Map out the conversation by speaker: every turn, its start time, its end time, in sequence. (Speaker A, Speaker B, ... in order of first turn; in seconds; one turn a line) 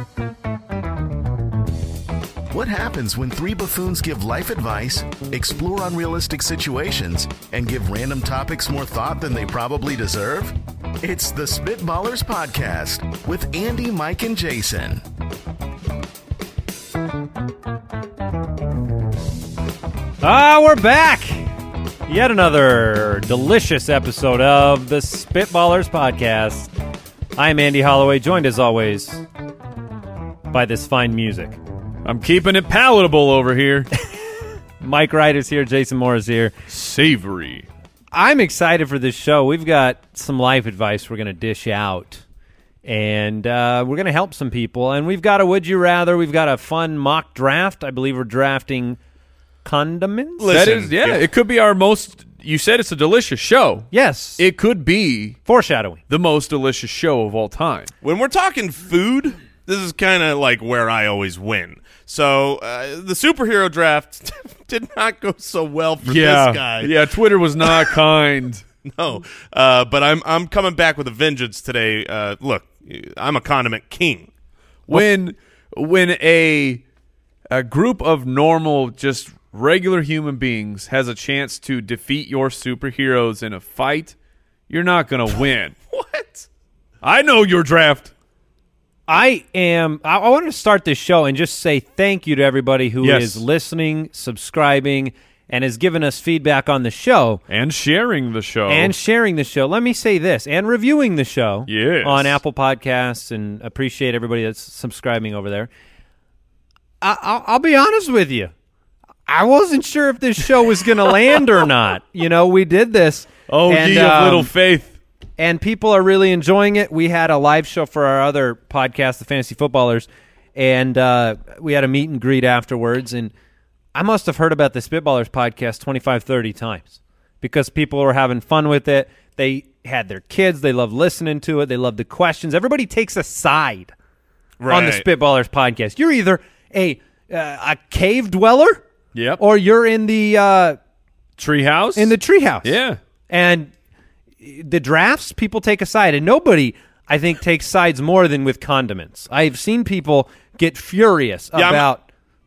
Speaker A: 2.5-15.0
Speaker B: 20.2-21.5
Speaker B: 22.1-26.7
Speaker B: 27.4-29.2
Speaker B: 30.5-31.6
Speaker C: 32.0-33.9
Speaker B: 34.8-36.5
Speaker C: 36.7-37.7
Speaker B: 38.1-42.2
Speaker B: 42.9-49.0
Speaker B: 49.6-50.5
Speaker D: 50.4-51.2
Speaker C: 50.5-55.4
Speaker B: 53.9-54.4
Speaker B: 55.5-56.0
Speaker C: 56.1-57.9
Speaker D: 58.0-66.9
Speaker C: 66.0-68.6
Speaker D: 67.6-67.9
Speaker D: 68.9-74.3
Speaker C: 74.9-76.8
Speaker C: 77.5-84.2
Speaker C: 84.7-85.8
Speaker D: 85.9-86.5
Speaker C: 87.0-88.1
Speaker B: 89.1-97.4
Speaker C: 93.0-93.4
Speaker C: 97.5-98.9
Speaker B: 98.7-105.7
Speaker C: 101.7-102.4
Speaker B: 107.0-108.5
Speaker B: 109.3-114.5
Speaker C: 113.5-115.0
Speaker B: 115.4-123.3
Speaker B: 123.9-133.9
Speaker D: 134.6-135.1
Speaker B: 134.7-138.8
Speaker C: 139.1-139.4
Speaker B: 139.4-140.8
Speaker C: 141.4-143.0
Speaker B: 142.0-142.8
Speaker B: 143.3-143.7
Speaker B: 144.4-152.0
Speaker D: 151.6-151.9